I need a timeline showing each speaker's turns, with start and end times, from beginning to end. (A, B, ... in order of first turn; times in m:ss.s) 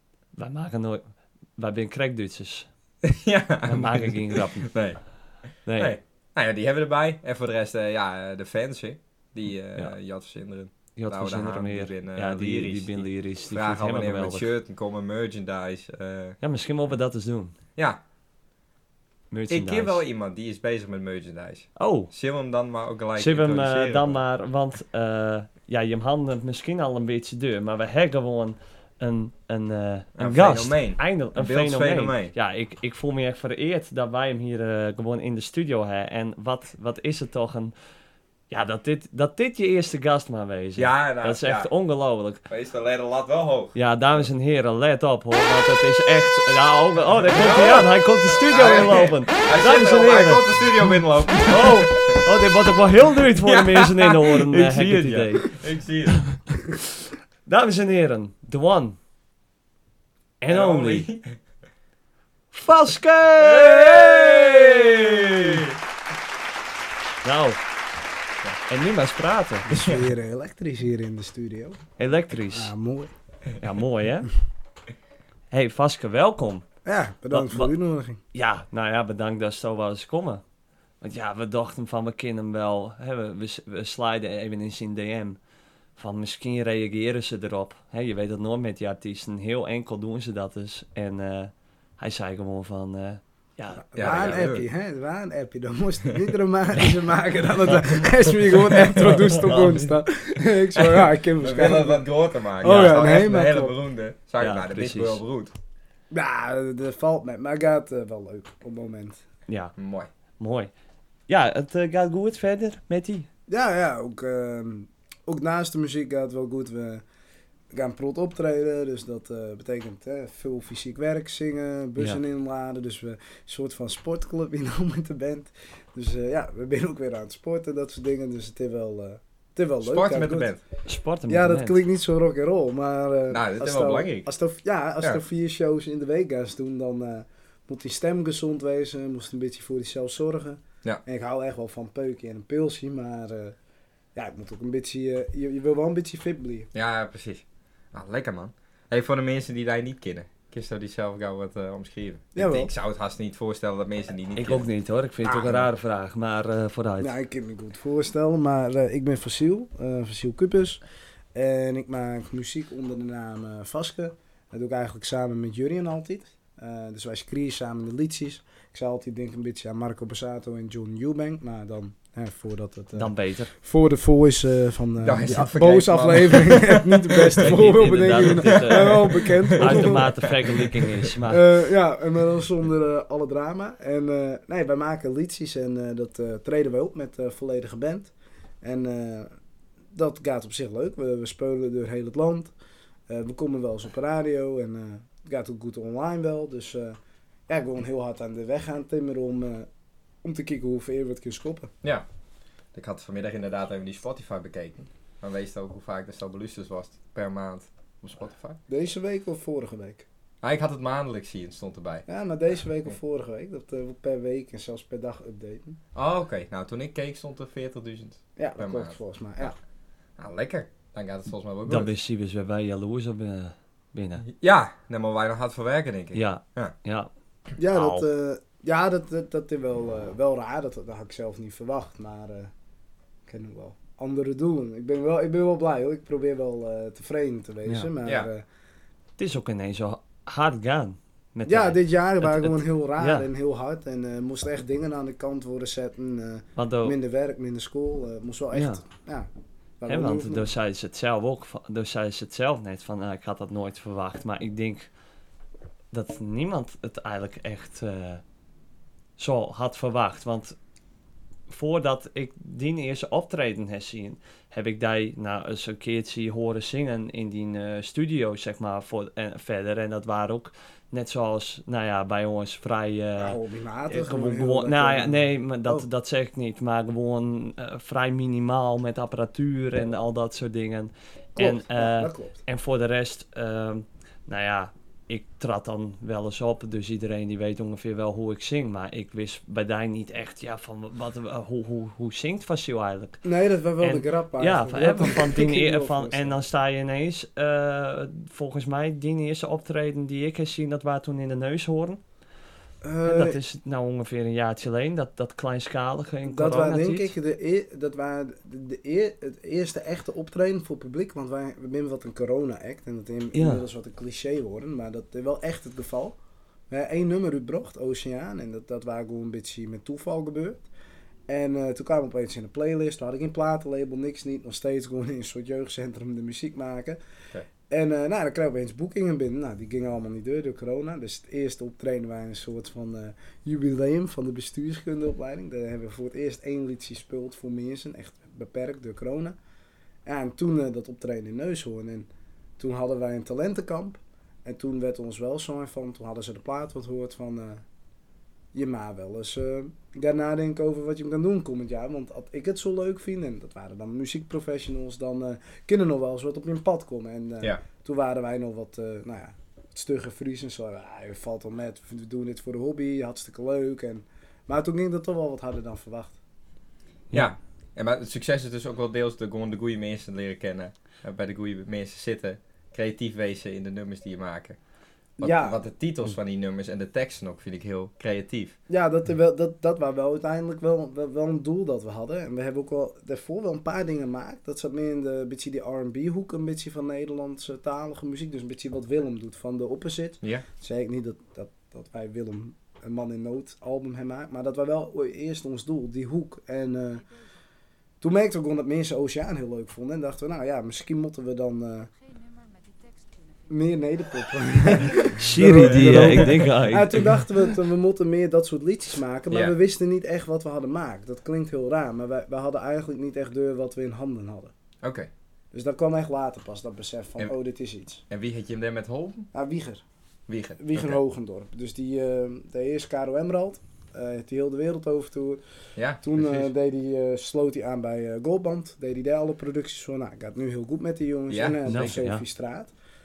0:00.4-0:02.7 A
0:03.0-0:05.0 B
0:03.6-0:04.7 A
0:05.6-0:06.0 A
0:05.8-0:16.4 B
0:11.0-0:14.5 A
0:16.4-0:17.6 A
0:19.3-0:20.0 A
0:19.5-0:24.2 B
0:21.8-0:22.1 A
0:23.2-0:37.7 A
0:30.2-0:32.3 B
0:38.5-0:42.4 A
0:40.8-0:41.7 B
0:42.5-0:44.2 B
0:43.8-0:50.4 A
0:47.4-0:52.2 B
0:51.5-0:55.5 A
0:53.4-0:56.2 B
0:56.5-0:56.8 A
0:57.4-0:59.0 A
1:00.4-1:01.1 A
1:00.5-1:01.4 B
1:02.5-1:05.6 A
1:03.4-1:05.8 B
1:07.2-1:07.6 A
1:08.7-1:09.7 A
1:09.7-1:11.8 C
1:09.7-1:10.0 B
1:12.0-1:12.7 A
1:12.5-1:13.1 C
1:13.6-1:14.3 A
1:15.5-1:16.6 A
1:16.8-1:18.2 C
1:17.3-1:17.7 A
1:18.3-1:20.4 A
1:21.0-1:25.4 A
1:26.0-1:34.1 A
1:33.9-1:42.1 C
1:33.9-1:34.6 B
1:38.9-1:40.0 A
1:41.4-1:45.5 B
1:42.6-1:43.8 C
1:42.6-1:43.0 A
1:44.4-1:45.2 A
1:46.1-1:49.2 C
1:49.5-1:49.7 A
1:49.8-1:50.1 B
1:50.4-1:50.7 A
1:51.3-1:53.3 A
1:53.5-1:57.0 C
1:57.7-2:10.5 C
2:09.8-2:10.6 B
2:10.9-2:11.8 A
2:11.3-2:23.6 C
2:13.3-2:14.3 B
2:24.1-2:26.7 C
2:26.7-2:34.7 B
2:32.4-2:32.7 C
2:34.4-2:37.1 A
2:35.2-2:35.7 C
2:37.0-2:40.8 C
2:41.3-3:00.2 C
2:53.0-2:53.5 A
2:55.0-2:57.4 B
2:57.4-3:01.4 A
2:58.2-3:00.8 B
3:01.3-3:08.1 C
3:08.6-3:09.3 C
3:09.9-3:12.5 C
3:13.1-3:17.0 C
3:17.5-3:19.7 C
3:20.2-3:21.7 C
3:22.7-3:28.6 B
3:28.7-3:30.0 C
3:30.4-3:32.0 B
3:32.1-3:35.8 C
3:36.0-3:39.6 B
3:38.4-3:39.5 C
3:40.2-3:41.9 B
3:41.7-3:44.2 A
3:44.2-3:46.7 B
3:46.1-3:47.1 A
3:47.6-3:52.5 C
3:47.7-3:48.0 A
3:53.3-3:58.4 C
3:58.0-3:58.3 B
3:59.2-4:03.3 A
4:01.4-4:10.5 C
4:06.6-4:07.0 A
4:08.5-4:08.8 A
4:09.9-4:14.9 A
4:15.9-4:18.2 A
4:19.2-4:20.6 A
4:21.5-4:53.2 A
4:33.2-4:35.9 C
4:41.4-4:42.4 C
4:53.2-4:56.4 C
4:53.8-5:02.0 A
5:02.8-5:03.4 C
5:03.0-5:07.1 A
5:06.3-5:16.2 C
5:13.3-5:13.6 A
5:16.7-5:20.6 C
5:21.3-5:27.0 C
5:27.7-5:39.4 C
5:40.0-5:47.6 C
5:48.5-6:06.2 C
6:07.1-6:14.6 B
6:15.2-6:18.5 B
6:15.2-6:15.6 C
6:18.7-6:37.0 C
6:38.0-6:41.9 C
6:43.5-6:54.5 C
6:45.0-6:47.4 A
6:45.6-6:46.2 B
6:54.8-6:55.1 B
6:55.5-6:58.0 C
6:58.1-6:59.3 B
6:59.3-6:59.8 C
7:00.3-7:01.0 B
7:00.6-7:05.4 C
7:05.8-7:06.5 B
7:06.0-7:12.7 C
7:11.3-7:11.9 B
7:11.6-7:12.2 A